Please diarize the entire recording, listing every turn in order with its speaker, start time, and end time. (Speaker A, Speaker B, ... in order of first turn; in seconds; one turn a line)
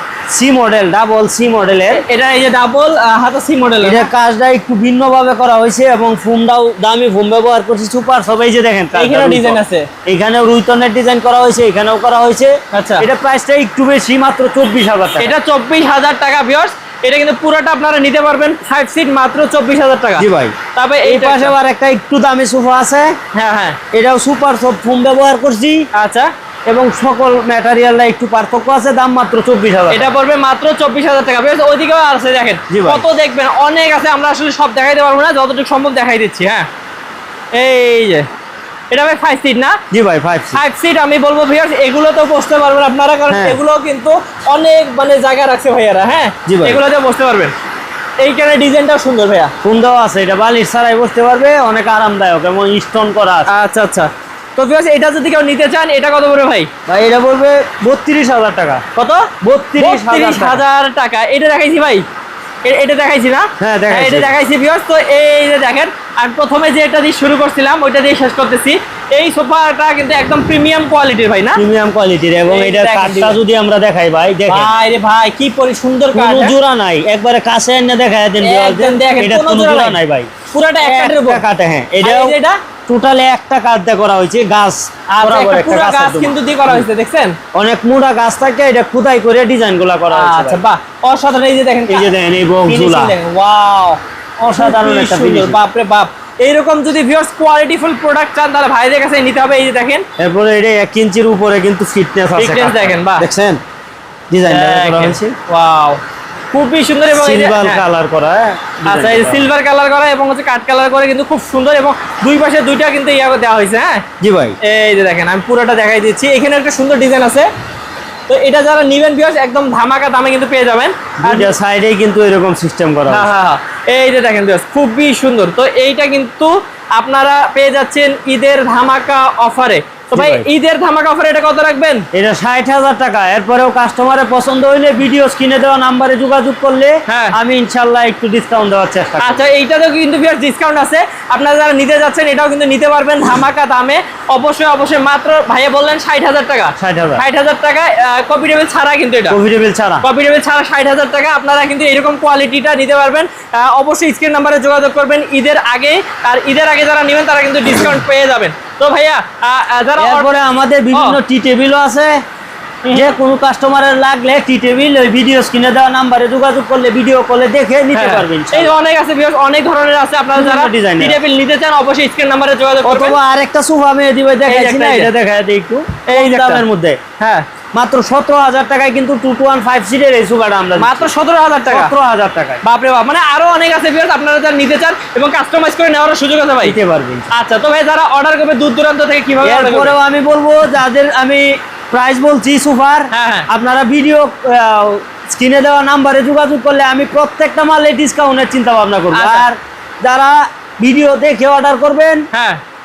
Speaker A: 0.3-2.0
Speaker B: 1.9-4.1
Speaker A: 3.8-15.3
Speaker B: 8.9-9.9
Speaker B: 12.7-13.1
Speaker B: 15.2-21.5
Speaker A: 20.2-23.2
Speaker B: 23.3-23.8
Speaker A: 23.9-25.9
Speaker B: 25.9-26.3
Speaker A: 26.7-30.1
Speaker B: 29.9-36.7
Speaker A: 32.7-33.0
Speaker B: 37.5-38.3
Speaker B: 38.9-39.8
Speaker A: 39.9-40.6
Speaker B: 40.5-47.5
Speaker A: 43.3-43.6
Speaker A: 46.5-46.8
Speaker B: 48.2-49.5
Speaker A: 49.6-53.5
Speaker B: 53.5-56.7
Speaker A: 56.9-58.8
Speaker B: 59.0-62.0
Speaker A: 59.4-60.6
Speaker B: 62.6-71.6
Speaker A: 63.6-64.3
Speaker A: 71.6-74.7
Speaker B: 72.5-73.4
Speaker B: 74.5-76.5
Speaker A: 76.1-80.3
Speaker B: 78.4-80.0
Speaker B: 80.5-81.4
Speaker A: 80.8-82.4
Speaker B: 82.0-82.6
Speaker A: 82.9-86.9
Speaker B: 85.2-87.4
Speaker A: 87.5-90.6
Speaker B: 90.1-92.1
Speaker A: 91.9-93.2
Speaker B: 92.7-100.1
Speaker A: 94.5-95.6
Speaker A: 100.2-103.6
Speaker B: 102.4-103.3
Speaker A: 104.3-105.4
Speaker B: 104.5-106.0
Speaker B: 106.5-107.8
Speaker A: 107.1-109.5
Speaker B: 108.9-114.0
Speaker A: 114.2-114.6
Speaker B: 114.6-117.5
Speaker B: 118.3-121.5
Speaker A: 121.2-123.3
Speaker B: 123.1-132.1
Speaker A: 130.1-130.5
Speaker A: 132.1-139.4
Speaker B: 137.1-137.3
Speaker B: 139.2-149.4
Speaker A: 146.8-147.2
Speaker A: 149.3-150.1
Speaker B: 150.0-160.4
Speaker A: 160.0-162.2
Speaker B: 160.9-161.2
Speaker B: 162.8-163.2
Speaker A: 162.9-168.7
Speaker B: 167.9-173.2
Speaker A: 170.3-171.2
Speaker A: 172.8-177.0
Speaker B: 174.5-175.1
Speaker B: 176.1-176.6
Speaker B: 177.2-177.5
Speaker A: 177.7-181.1
Speaker B: 180.8-181.9
Speaker A: 181.7-182.6
Speaker B: 182.6-186.8
Speaker A: 186.6-187.3
Speaker B: 187.3-189.9
Speaker A: 189.4-202.3
Speaker B: 193.1-193.5
Speaker B: 199.1-199.5
Speaker B: 202.3-202.6